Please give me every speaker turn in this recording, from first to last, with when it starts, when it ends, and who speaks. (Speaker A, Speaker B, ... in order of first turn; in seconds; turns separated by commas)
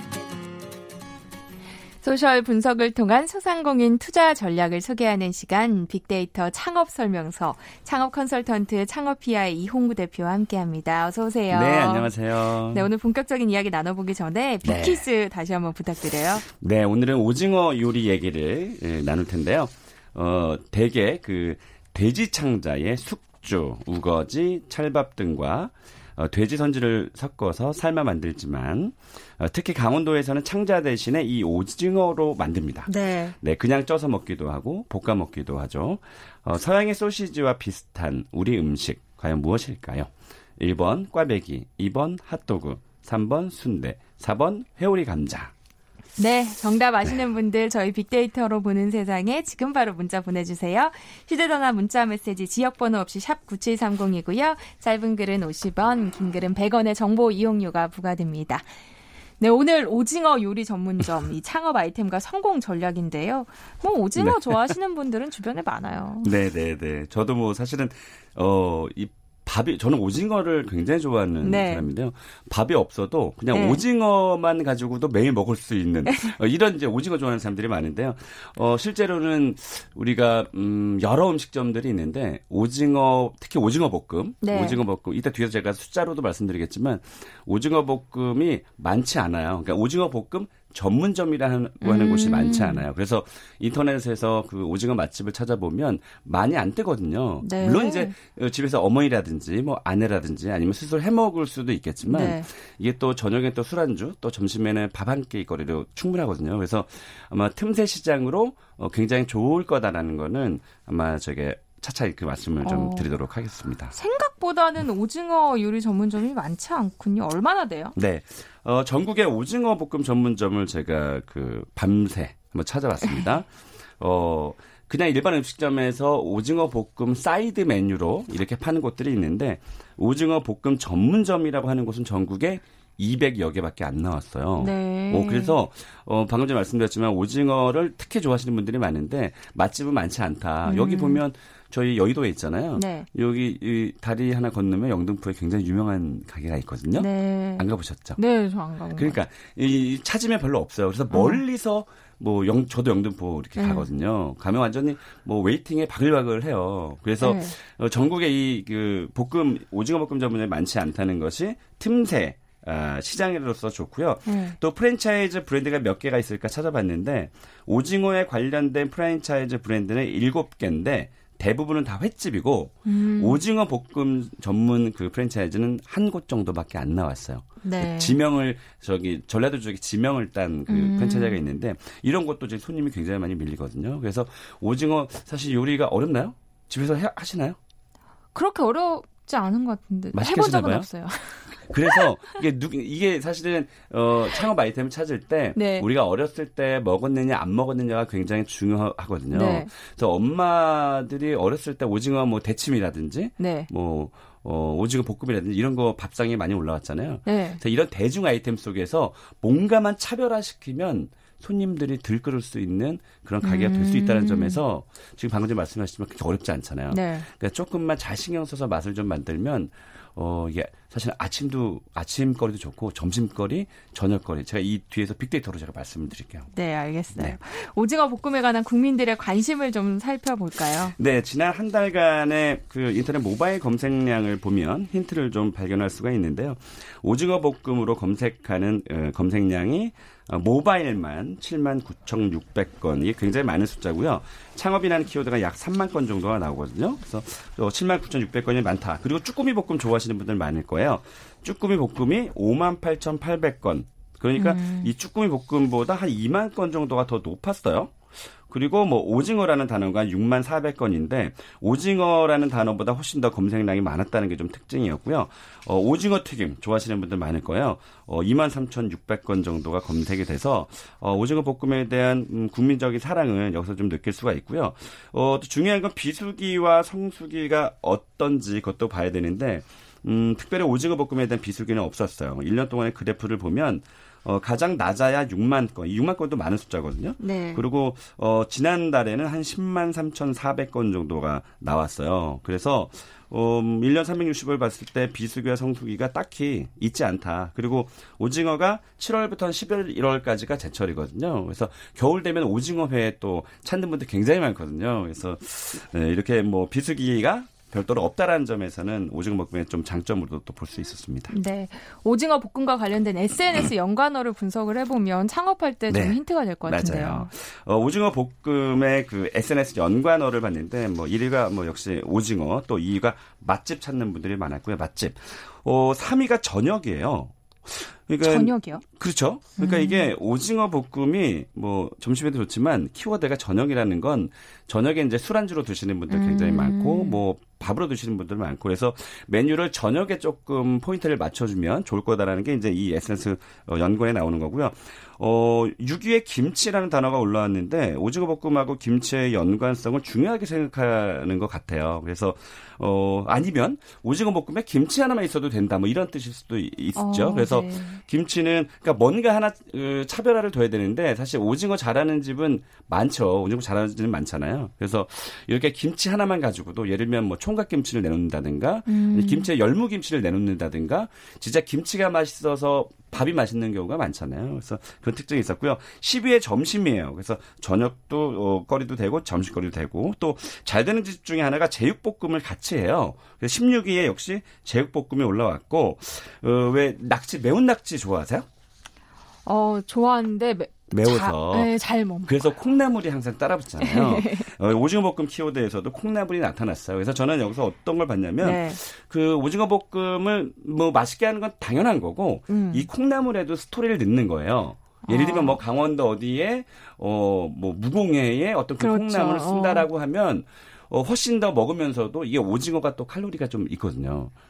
Speaker A: 2.0-12.1, Speaker B: 11.5-12.9, Speaker A: 12.7-16.5, Speaker B: 14.6-15.0, Speaker B: 16.6-45.5, Speaker A: 32.9-33.4, Speaker A: 46.2-58.7, Speaker A: 59.4-66.3, Speaker B: 64.2-64.7, Speaker B: 66.2-113.9, Speaker A: 71.4-71.9, Speaker A: 73.5-73.8, Speaker A: 76.0-76.3, Speaker A: 84.4-84.8, Speaker A: 91.8-92.8, Speaker A: 97.4-98.1, Speaker A: 102.1-102.5, Speaker A: 112.6-113.1, Speaker A: 113.9-118.0, Speaker B: 118.0-123.5, Speaker B: 124.0-148.2, Speaker A: 134.6-135.6, Speaker A: 140.7-141.2, Speaker A: 142.8-143.1, Speaker A: 147.0-149.2, Speaker B: 148.9-187.6, Speaker A: 151.1-151.4, Speaker A: 153.6-153.9, Speaker A: 157.2-157.6, Speaker A: 164.3-164.6, Speaker A: 172.9-173.4, Speaker A: 177.6-178.2, Speaker A: 180.7-181.4, Speaker A: 188.3-192.1, Speaker B: 190.1-190.9, Speaker B: 191.5-226.5, Speaker A: 195.6-195.9, Speaker A: 199.3-199.7, Speaker A: 203.4-203.7, Speaker A: 207.2-207.6, Speaker A: 213.4-214.6, Speaker A: 216.9-217.3, Speaker A: 226.5-230.9, Speaker B: 231.0-258.0, Speaker A: 254.4-254.9, Speaker B: 258.5-311.3, Speaker A: 287.2-287.6, Speaker A: 311.3-317.3, Speaker B: 315.9-388.5, Speaker A: 328.2-328.8, Speaker A: 329.6-330.1, Speaker A: 336.1-337.2, Speaker A: 356.9-358.0, Speaker A: 368.9-369.5, Speaker A: 389.5-392.5, Speaker B: 390.9-391.7, Speaker B: 392.3-414.3, Speaker A: 393.8-394.5, Speaker A: 398.4-398.8, Speaker A: 402.5-402.9, Speaker A: 405.1-405.6, Speaker A: 408.8-409.9